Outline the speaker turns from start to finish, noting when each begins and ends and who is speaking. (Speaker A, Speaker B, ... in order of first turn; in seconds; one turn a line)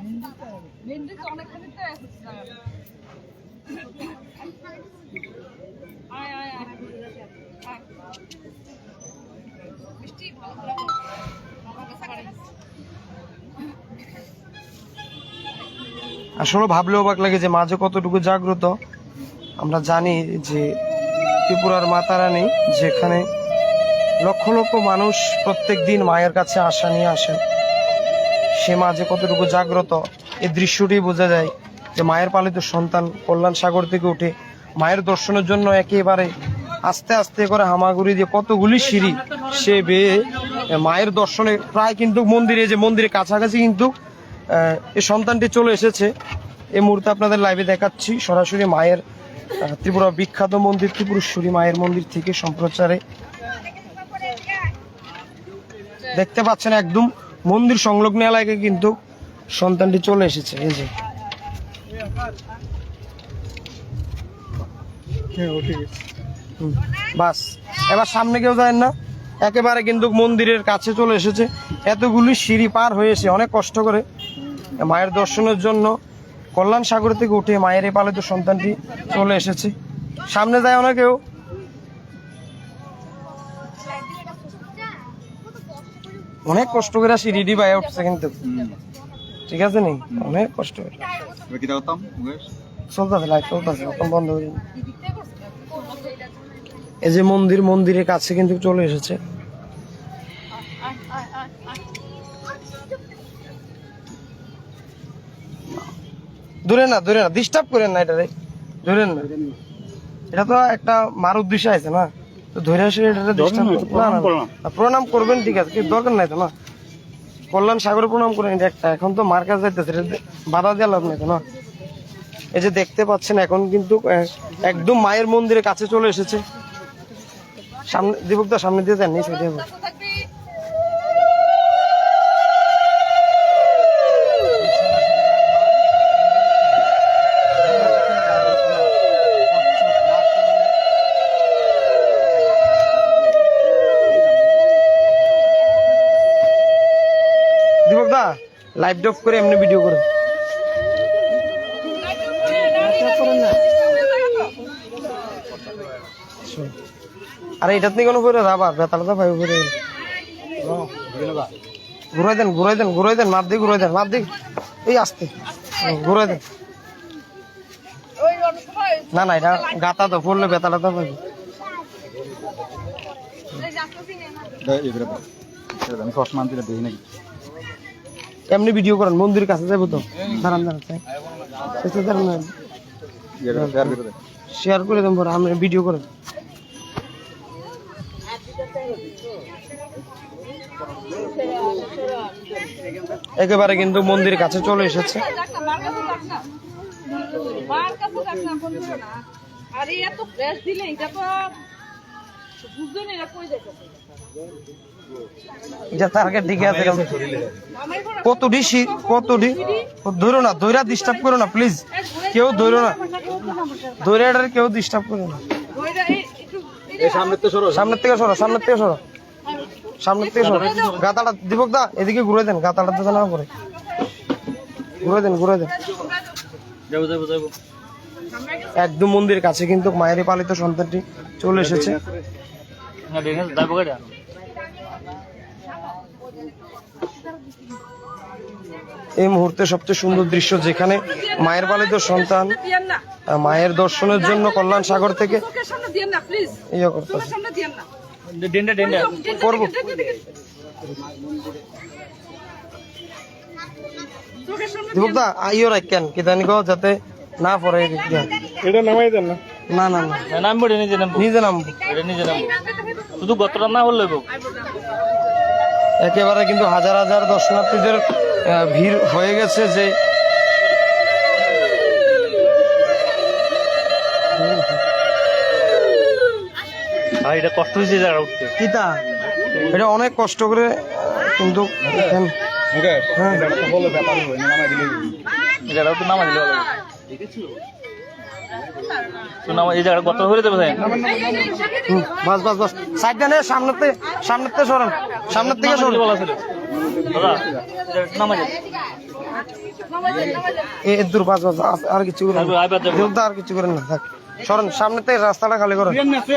Speaker A: 0.9-2.4
Speaker B: 16.4-18.7
Speaker B: 19.6-20.7
Speaker B: 21.4-23.2
Speaker B: 24.2-27.4
Speaker B: 28.6-43.9
Speaker B: 44.5-46.1
Speaker B: 46.7-49.0
Speaker B: 49.6-53.0
Speaker B: 56.1-58.9
Speaker B: 59.5-60.9
Speaker B: 66.6-74.0
Speaker B: 74.8-76.0
Speaker B: 76.5-79.7
Speaker B: 80.3-81.2
Speaker B: 86.4-88.4
Speaker C: 88.4-88.8
Speaker B: 89.5-91.0
Speaker C: 91.5-92.5
Speaker B: 92.9-94.6
Speaker B: 97.0-99.2
Speaker B: 106.6-108.3
Speaker B: 108.8-109.3
Speaker B: 110.3-116.5
Speaker D: 113.5-114.4
Speaker B: 117.5-121.4
Speaker B: 122.5-126.4
Speaker B: 127.9-129.7
Speaker B: 147.8-150.0
Speaker B: 156.4-156.7
Speaker B: 157.6-159.7
Speaker C: 161.0-161.4
Speaker B: 162.1-164.3
Speaker B: 164.8-166.4
Speaker B: 169.1-171.2
Speaker C: 174.6-177.0
Speaker B: 178.5-181.0
Speaker B: 181.8-182.5
Speaker C: 183.4-184.1
Speaker B: 183.5-183.9
Speaker B: 184.5-186.0
Speaker B: 193.4-195.3
Speaker A: 195.6-196.4
Speaker A: 197.7-199.1
Speaker A: 199.8-201.5
Speaker A: 202.9-203.6
Speaker B: 205.9-207.2
Speaker B: 208.2-213.0
Speaker B: 214.0-215.4
Speaker C: 217.0-217.8
Speaker B: 217.7-219.0
Speaker B: 220.0-223.5
Speaker D: 220.4-221.0
Speaker B: 225.0-225.7
Speaker D: 226.9-227.5
Speaker B: 228.8-232.0
Speaker D: 233.1-234.0
Speaker B: 239.2-242.6
Speaker B: 243.3-245.5
Speaker B: 246.7-247.4
Speaker D: 248.3-249.2
Speaker B: 249.2-249.8
Speaker B: 254.9-260.2
Speaker D: 260.3-261.2
Speaker B: 261.1-261.8
Speaker D: 261.8-264.3
Speaker B: 266.0-269.9
Speaker B: 274.3-274.8
Speaker D: 277.2-278.5
Speaker B: 278.6-279.0
Speaker B: 279.7-282.4
Speaker C: 282.7-285.1
Speaker B: 283.1-283.5
Speaker D: 285.6-286.7
Speaker D: 289.4-291.0
Speaker B: 291.9-296.1
Speaker D: 295.4-296.4
Speaker D: 297.1-298.6
Speaker B: 300.8-306.0
Speaker D: 302.3-303.1